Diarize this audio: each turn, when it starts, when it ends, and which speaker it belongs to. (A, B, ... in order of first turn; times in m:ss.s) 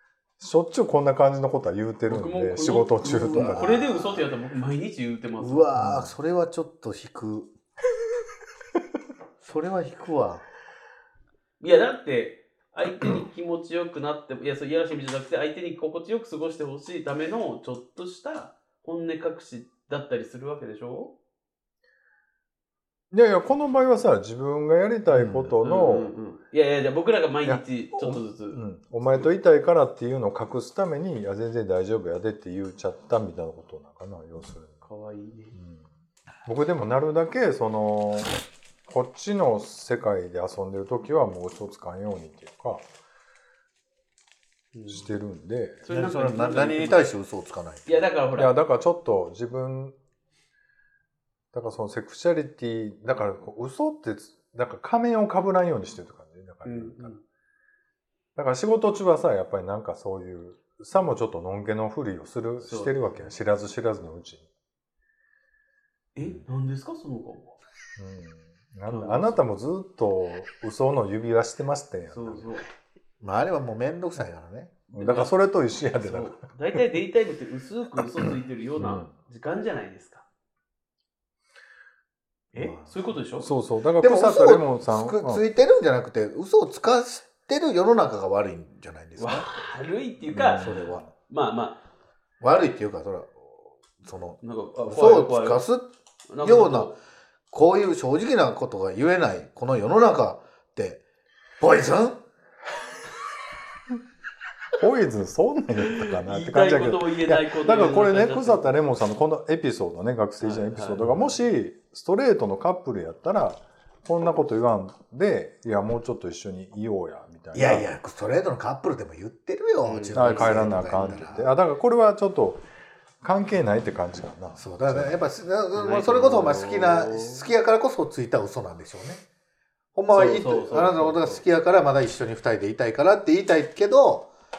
0:00.4-0:03.8 A
0:02.1-0:05.7 B
0:03.0-0:04.2 C
0:05.4-0:07.5 C
0:05.8-0:06.1 A
0:09.4-0:10.4 C
0:11.6-0:21.1 B
0:23.1-0:26.1 A
0:25.6-0:28.6 B
0:27.4-0:34.8 A
0:34.8-0:35.6 B
0:35.6-0:35.9 A
0:36.4-0:38.3 A
0:38.9-0:42.8 A
0:44.7-0:45.1 B
0:44.9-0:45.8 A
0:45.8-0:47.1 B
0:45.9-0:48.1 C
0:47.9-0:48.5 B
0:48.4-0:50.0 A
0:51.5-0:57.1 A
0:56.6-0:57.2 B
0:58.4-1:04.5 A
1:02.6-1:03.1 B
1:06.2-1:07.6 B
1:08.0-1:12.5 A
1:08.9-1:09.4 B
1:12.1-1:12.7 B
1:13.2-1:14.8 C
1:14.9-1:16.8 A
1:14.9-1:15.3 B
1:16.0-1:20.2 B
1:18.2-1:19.1 A
1:22.5-1:23.5 B
1:22.6-1:22.9 C
1:23.4-1:25.4 A
1:24.0-1:29.5 C
1:29.2-1:31.8 B
1:30.3-1:30.9 A
1:30.4-1:31.1 C
1:32.4-1:35.9 C
1:34.4-1:35.6 B
1:36.3-1:37.0 B
1:36.4-1:37.0 C
1:37.5-1:41.0 C
1:41.6-1:42.2 C
1:44.8-1:57.9 A
1:45.8-1:48.8 B
1:50.4-1:51.3 B
1:57.5-2:01.5 C
1:59.8-2:00.8 B
2:00.1-2:02.6 A
2:03.2-2:05.2 A
2:04.6-2:09.2 C
2:05.8-2:07.5 B
2:10.0-2:14.3 C
2:10.1-2:11.4 B